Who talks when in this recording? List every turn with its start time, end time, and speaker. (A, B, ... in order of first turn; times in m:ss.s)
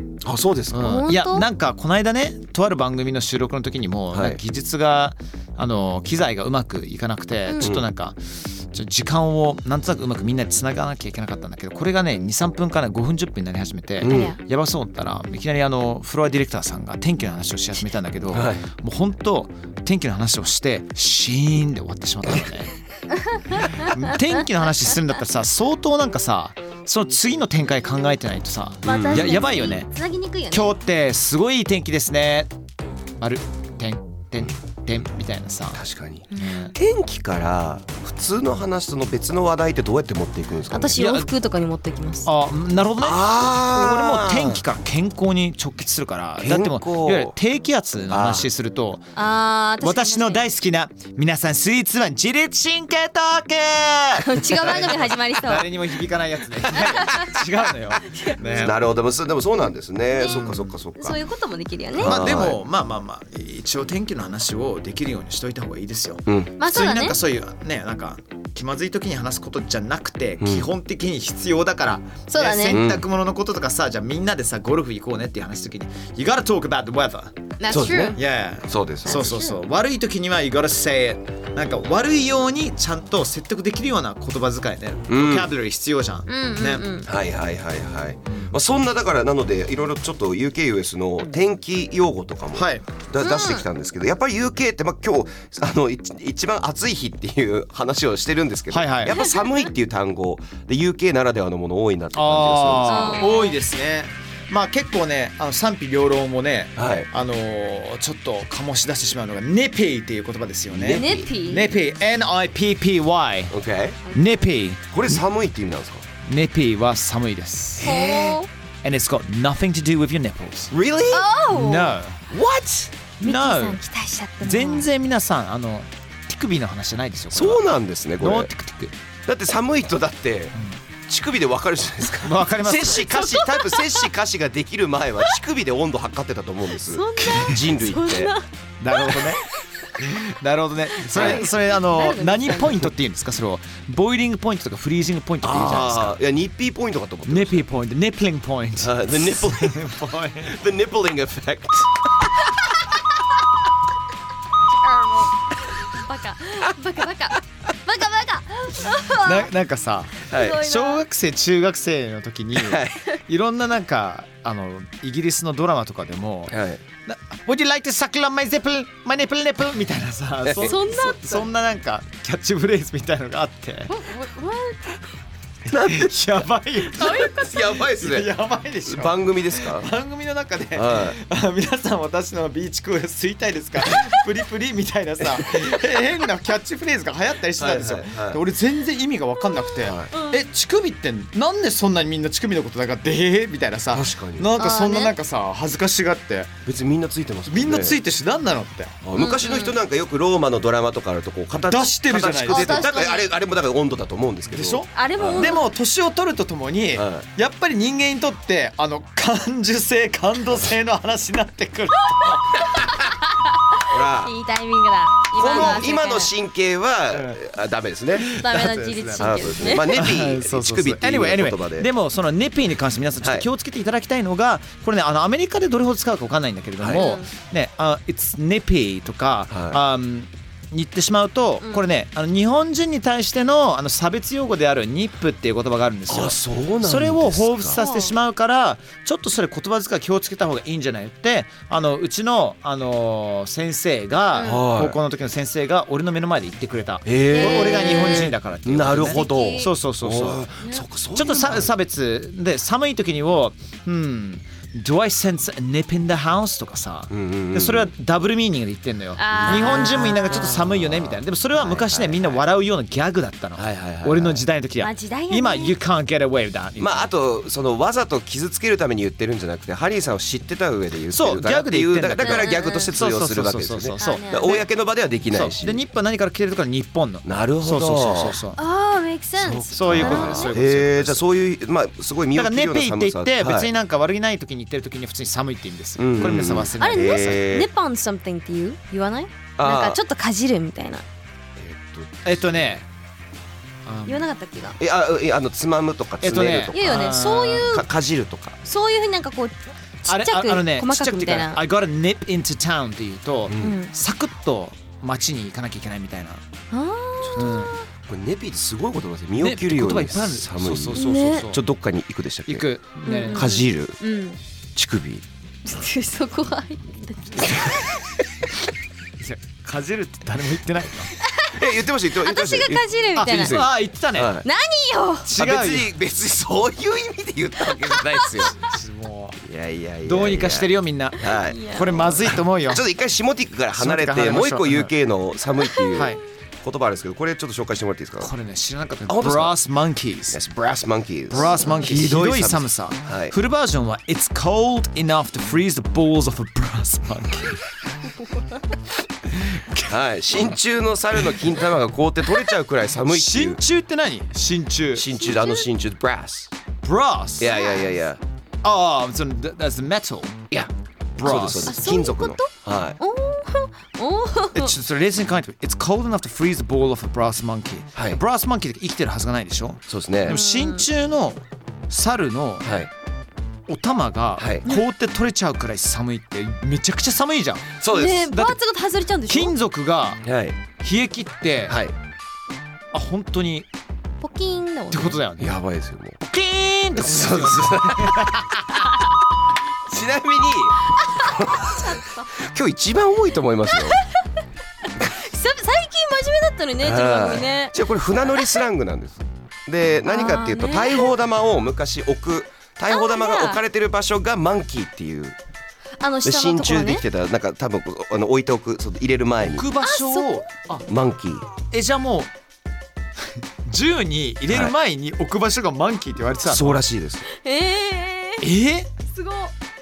0:00.2-0:01.1 A
0:00.7-0:22.7 B
0:00.8-0:01.4 C
0:04.1-0:04.4 A
0:07.4-0:07.7 C
0:14.0-0:14.3 A
0:14.0-0:14.4 C
0:18.3-0:18.6 A
0:23.5-0:29.9 B
0:28.8-0:29.6 A
0:28.8-0:30.8 C
0:30.5-0:32.5 B
0:33.2-0:35.8 B
0:35.7-0:41.2 A
0:36.3-0:36.7 B
0:40.7-0:42.3 C
0:41.0-0:41.2 B
0:42.2-0:49.1 B
0:43.0-0:44.6 A
0:46.4-0:47.3 A
0:48.1-0:48.5 A
0:49.1-0:50.4 C
0:49.8-0:58.8 B
0:54.2-0:55.7 C
0:56.7-0:57.3 C
0:58.1-0:58.7 C
0:58.5-1:01.2 A
1:00.1-1:02.4 C
1:00.3-1:00.6 B
1:02.0-1:02.6 A
1:02.0-1:17.5 B
1:06.3-1:06.5 A
1:06.6-1:07.2 C
1:10.4-1:10.7 A
1:12.3-1:12.8 C
1:12.7-1:13.0 A
1:17.6-1:18.2 C
1:17.7-1:19.3 A
1:18.2-1:26.9 B
1:19.1-1:19.6 C
1:25.1-1:25.5 A
1:26.3-1:27.1 C
1:27.0-1:43.4 A
1:32.5-1:32.8 B
1:33.2-1:33.6 C
1:38.7-1:39.2 B
1:39.1-1:39.6 C
1:42.1-1:53.6 B
1:42.8-1:43.6 C
1:46.8-1:47.1 A
1:50.7-1:51.3 A
1:50.8-1:51.7 C
1:53.5-1:54.0 A
1:54.1-1:54.4 C
1:54.1-1:55.2 B
1:54.9-1:56.0 A
1:56.2-1:57.9 B
1:57.8-1:58.4 A
1:57.8-1:58.5 C
1:58.8-2:00.7 B
2:00.7-2:01.3 A
2:01.1-2:02.0 C
2:01.5-2:02.2 B
2:02.3-2:02.9 A
2:03.2-2:04.9 C
2:03.2-2:03.8 B
2:04.4-2:07.6 B
2:07.3-2:08.5 A
2:08.2-2:08.9 B
2:09.2-2:10.5 A
2:11.1-2:18.3 A
2:12.2-2:13.1 B
2:13.0-2:14.1 C
2:16.8-2:19.5 C
2:17.2-2:17.6 B
2:18.8-2:19.4 B
2:20.0-2:26.2 B
2:21.0-2:22.9 C
2:21.1-2:21.5 A
2:25.4-2:27.6 A
2:27.3-2:30.5 B
2:28.8-2:32.3 A
2:34.8-2:39.5 C
2:39.1-2:53.9 B
2:40.3-2:40.6 A
2:40.3-2:41.0 C
2:42.5-2:43.0 A
2:46.5-2:46.8 A
2:50.4-2:50.8 A
2:50.6-2:51.5 C
2:53.9-2:55.0 C
2:55.6-2:56.5 A
2:55.7-3:16.5 B
2:56.9-2:57.7 C
2:57.0-2:58.3 A
2:58.8-2:59.9 A
3:00.7-3:01.2 A
3:07.6-3:08.4 A
3:09.8-3:10.1 A
3:10.1-3:10.4 C
3:13.9-3:14.5 A
3:14.6-3:15.1 C
3:16.6-3:18.0 A
3:17.5-3:19.0 B
3:19.0-3:25.6 A
3:19.2-3:19.8 C
3:21.6-3:23.0 B
3:22.4-3:23.3 C
3:24.5-3:32.8 B
3:24.9-3:25.7 C
3:26.9-3:27.2 A
3:32.6-3:36.3 C
3:33.9-3:34.3 A
3:35.3-3:38.4 A
3:35.5-3:35.8 B
3:37.1-3:37.4 B
3:38.2-4:10.4 B
3:38.2-3:40.1 C
3:39.2-3:41.9 A
3:43.2-3:43.5 A
3:46.8-3:47.0 A
3:46.9-3:47.3 C
3:49.5-3:49.8 A
3:56.1-3:57.8 A
3:57.7-3:58.1 C
4:04.3-4:04.6 C
4:04.4-4:05.0 A
4:07.0-4:11.7 A
4:07.3-4:08.3 C
4:09.0-4:09.7 C
4:11.1-4:27.1 B
4:17.1-4:17.9 A
4:19.2-4:20.6 C
4:19.3-4:22.4 A
4:23.6-4:24.4 A
4:24.8-4:25.8 C
4:26.8-4:35.8 A
4:31.1-4:34.6 B
4:32.2-4:32.9 C
4:34.0-4:34.6 C
4:35.3-4:38.6 B
4:37.2-4:38.4 A
4:38.6-4:40.6 C
4:39.4-4:43.7 A
4:39.7-4:41.2 B
4:42.3-4:47.5 B
4:46.0-4:47.7 A
4:46.8-4:51.0 C
4:49.6-4:50.0 A
4:51.6-4:52.6 A
4:52.2-4:52.9 B
4:53.8-4:54.2 B
4:54.0-4:54.8 C
4:54.8-4:58.6 A
4:56.2-4:57.7 B
4:56.7-4:57.9 C
4:58.6-5:01.6 C
5:00.0-5:06.4 B
5:03.5-5:03.8 A
5:03.6-5:03.9 C
5:06.7-5:07.8 C
5:07.2-5:12.7 A
5:07.4-5:07.7 B
5:09.4-5:11.6 B
5:10.9-5:11.5 C
5:12.5-5:13.5 B
5:13.0-5:14.4 C
5:13.3-5:14.0 A
5:14.8-5:15.2 A
5:15.6-5:17.8 C
5:19.2-5:21.1 B
5:21.2-5:21.7 C
5:21.5-5:24.5 A
5:22.2-5:23.6 C
5:23.2-5:24.4 B
5:24.4-5:25.3 C
5:25.2-5:25.9 B
5:25.3-5:28.6 A
5:28.0-5:28.5 C
5:28.5-5:29.4 B
5:29.4-5:38.3 A
5:30.0-5:32.8 B
5:31.3-5:32.1 C
5:33.7-5:34.9 B
5:35.7-5:36.1 C
5:35.9-5:36.2 B
5:38.2-5:40.4 B
5:39.1-5:39.6 A
5:40.3-5:43.4 A
5:41.3-5:47.6 B
5:41.3-5:41.9 C
5:49.2-5:50.5 B
5:49.9-5:53.6 A
5:53.1-5:55.2 B
5:54.9-5:56.5 A
5:55.2-5:55.6 C
5:56.8-5:57.6 B
5:57.4-5:58.2 A
5:57.4-5:57.9 C
5:58.6-6:00.4 B
6:00.5-6:03.0 A
6:01.2-6:01.8 B
6:01.6-6:04.7 C
6:04.5-6:12.8 B
6:09.9-6:10.4 A
6:10.3-6:10.9 C
6:12.6-6:12.9 A
6:13.7-6:18.6 B
6:14.4-6:14.6 A
6:17.8-6:18.3 A
6:17.9-6:19.5 C
6:19.3-6:20.2 B
6:20.2-6:20.6 A
6:20.8-6:21.8 B
6:21.7-6:21.9 A
6:22.9-6:23.7 B
6:24.2-6:25.2 C
6:24.9-6:25.6 B
6:25.4-6:26.2 A
6:26.2-6:28.8 B
6:26.9-6:28.4 A
6:29.9-6:34.0 A
6:31.7-6:32.3 C
6:33.7-6:34.2 C
6:35.0-6:37.7 C
6:36.8-6:45.4 A
6:40.0-6:41.1 C
6:42.9-6:43.6 C
6:46.0-6:47.0 C
6:46.2-6:49.7 A
6:49.4-6:50.8 B
6:49.8-6:50.4 C
6:50.9-6:51.4 A
6:51.7-6:52.3 B
6:53.6-6:56.8 B
6:54.5-6:54.7 A
6:56.4-6:57.2 A
6:57.3-6:58.4 C
6:58.4-6:58.9 B
6:59.0-6:59.5 C